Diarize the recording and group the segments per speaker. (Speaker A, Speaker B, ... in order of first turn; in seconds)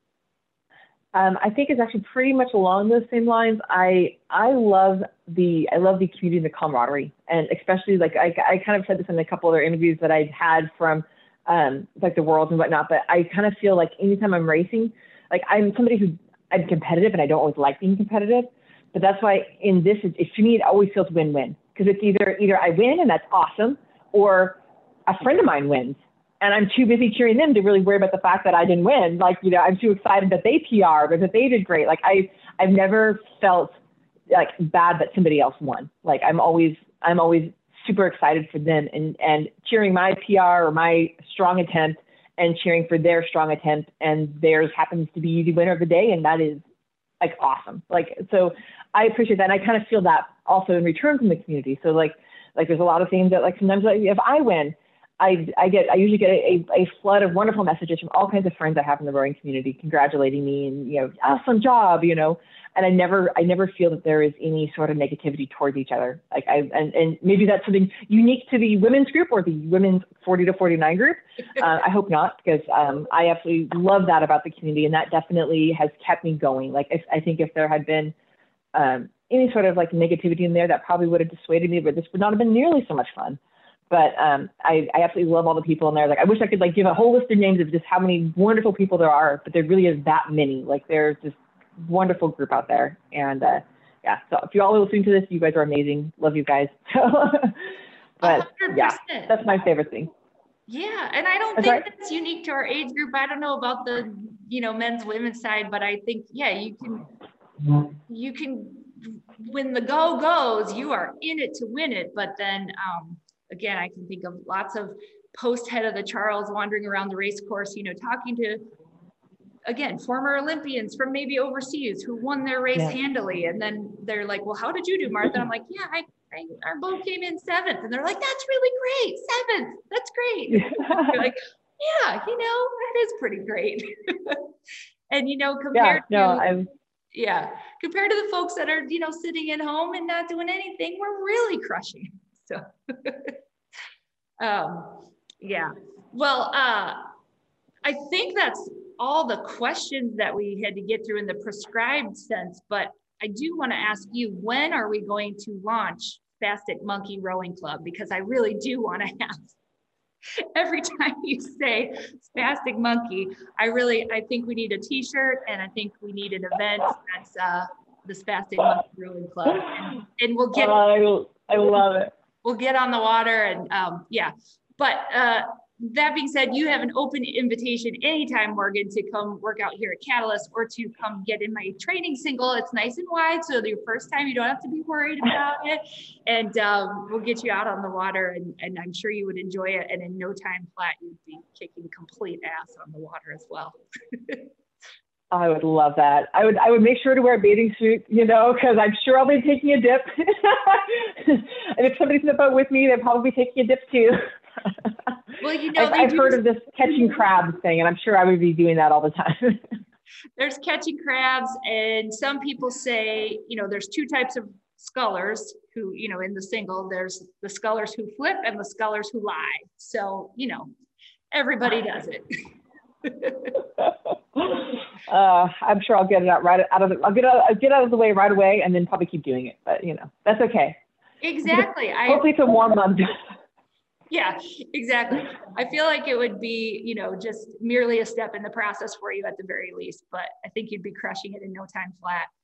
Speaker A: 1.1-33.7, 34.3-46.6, 47.2-78.1, 78.7-83.4, 83.9-100.1, 101.5-101.8, 130.5-131.2, 135.7-136.7, 170.5-172.1, 195.3-205.1, 205.8-209.7, 223.8-230.8, 231.5-233.1
Speaker B: 98.2-99.3, 100.7-107.0, 108.1-118.6, 119.7-134.4, 135.1-136.5, 137.1-143.4, 144.4-147.1, 147.8-159.6, 160.5-170.8, 172.4-194.5, 205.4-206.4, 210.4-220.7, 221.3-222.2, 223.0-223.6, 231.2-232.2, 234.1-242.3